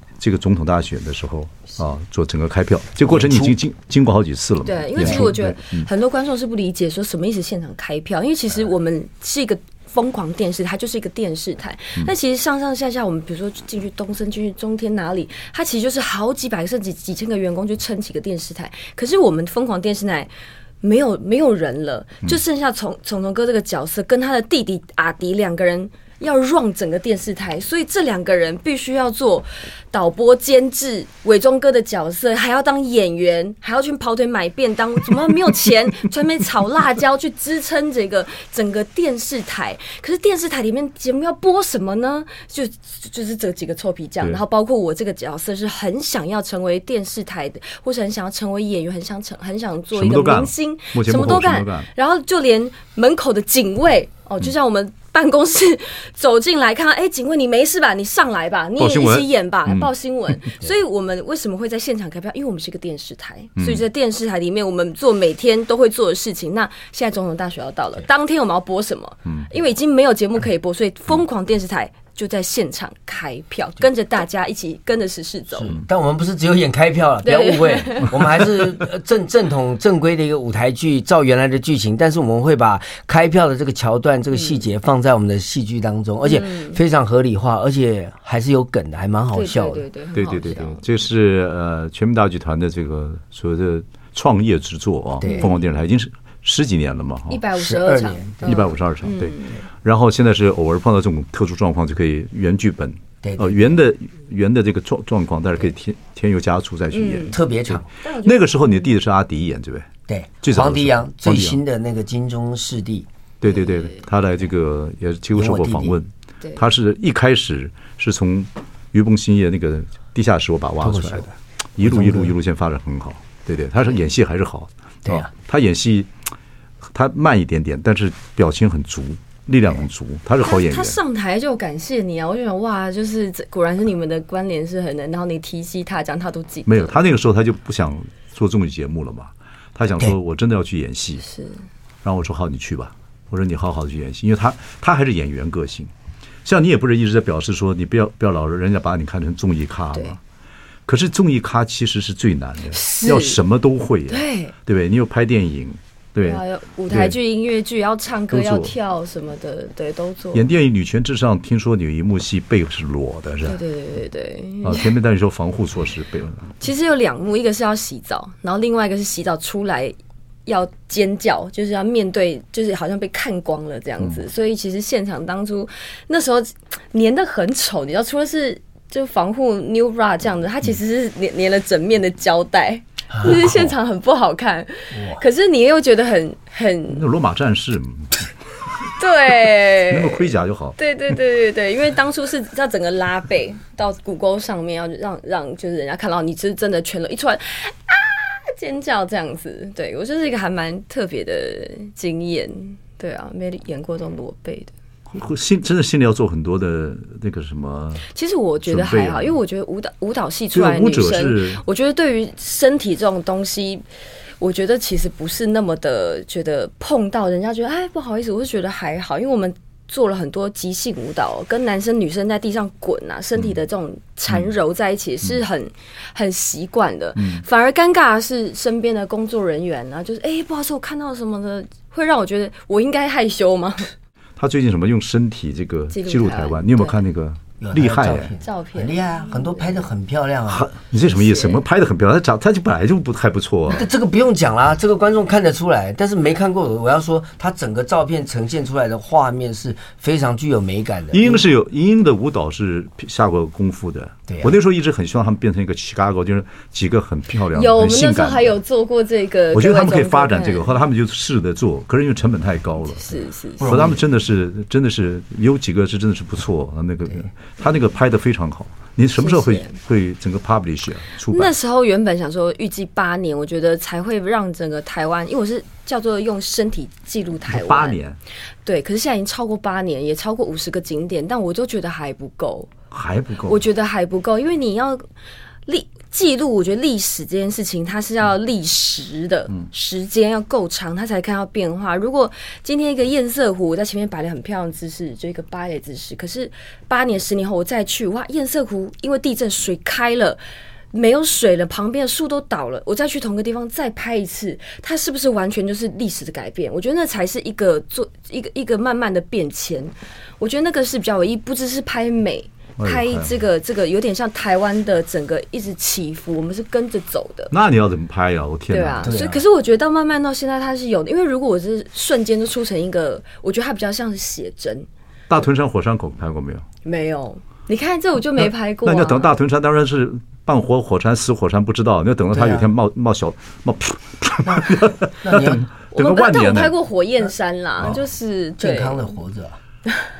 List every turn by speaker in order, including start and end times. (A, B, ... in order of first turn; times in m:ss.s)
0:00.2-0:05.9 A
0:03.1-0:03.5 B
0:04.6-0:20.3 C
0:05.0-0:05.3 B
0:20.8-1:15.8 C
0:49.9-0:51.9 A
0:58.8-0:59.9 A
1:03.6-1:03.8 A
1:15.5-1:29.8 B
1:17.2-1:18.3 C
1:24.3-1:24.6 C
1:26.2-1:26.8 C
1:29.3-1:30.8 C
1:30.1-1:37.4 A
1:35.2-1:35.5 B
1:35.2-1:35.5 C
1:37.3-1:39.6 C
1:37.5-1:38.6 B
1:38.4-1:51.6 A
1:43.2-1:43.8 B
1:46.9-1:47.4 C
1:47.3-1:47.9 B
1:48.0-1:48.9 C
1:50.1-1:53.1 B
1:53.4-2:06.1 A
1:53.5-1:54.0 C
1:55.3-1:56.0 B
2:00.8-2:02.3 B
2:05.0-2:05.3 B
2:06.8-2:11.0 A
2:10.4-2:17.0 C
2:16.7-2:21.2 A
2:21.2-2:21.6 C
2:22.0-2:25.9 A
2:26.4-2:30.2 A
2:30.9-2:37.2 A
2:32.7-2:33.4 C
2:34.1-2:34.5 C
2:36.2-2:40.5 C
2:38.3-2:38.7 A
2:40.3-2:43.6 A
2:43.4-2:44.9 C
2:44.6-2:46.5 A
2:46.6-3:07.0 C
3:03.3-3:03.6 A
3:04.9-3:05.2 B
3:06.9-3:08.3 A
3:08.9-3:24.7 C
3:09.9-3:10.8 A
3:25.1-3:28.1 A
3:28.1-3:33.8 C
3:28.6-3:29.4 A
3:30.5-3:31.6 A
3:34.4-3:53.9 C
3:47.2-3:47.4 A
3:54.4-3:58.3 A
3:55.9-3:57.0 C
3:57.6-4:00.7 B
3:58.4-3:59.8 C
4:00.5-4:03.9 A
4:01.1-4:01.6 C
4:03.7-4:11.4 B
4:11.1-4:18.5 A
4:14.3-4:14.6 B
4:17.5-4:20.7 C
4:19.5-4:31.5 A
4:23.0-4:23.7 C
4:23.6-4:24.0 B
4:29.2-4:29.8 C
4:31.3-4:38.0 C
4:37.5-4:38.2 A
4:38.6-4:42.7 C
4:42.9-4:43.6 A
4:43.5-4:45.1 C
4:45.7-5:00.4 C
5:00.9-5:17.5 C
5:12.8-5:13.4 A
5:17.5-5:19.1 A
5:18.7-5:24.9 C
5:19.0-5:19.4 B
5:25.3-5:26.6 A
5:26.8-5:29.3 C
5:28.4-5:36.8 A
5:32.3-5:32.7 B
5:34.4-5:35.6 B
5:35.9-5:39.2 C
5:38.6-5:39.6 B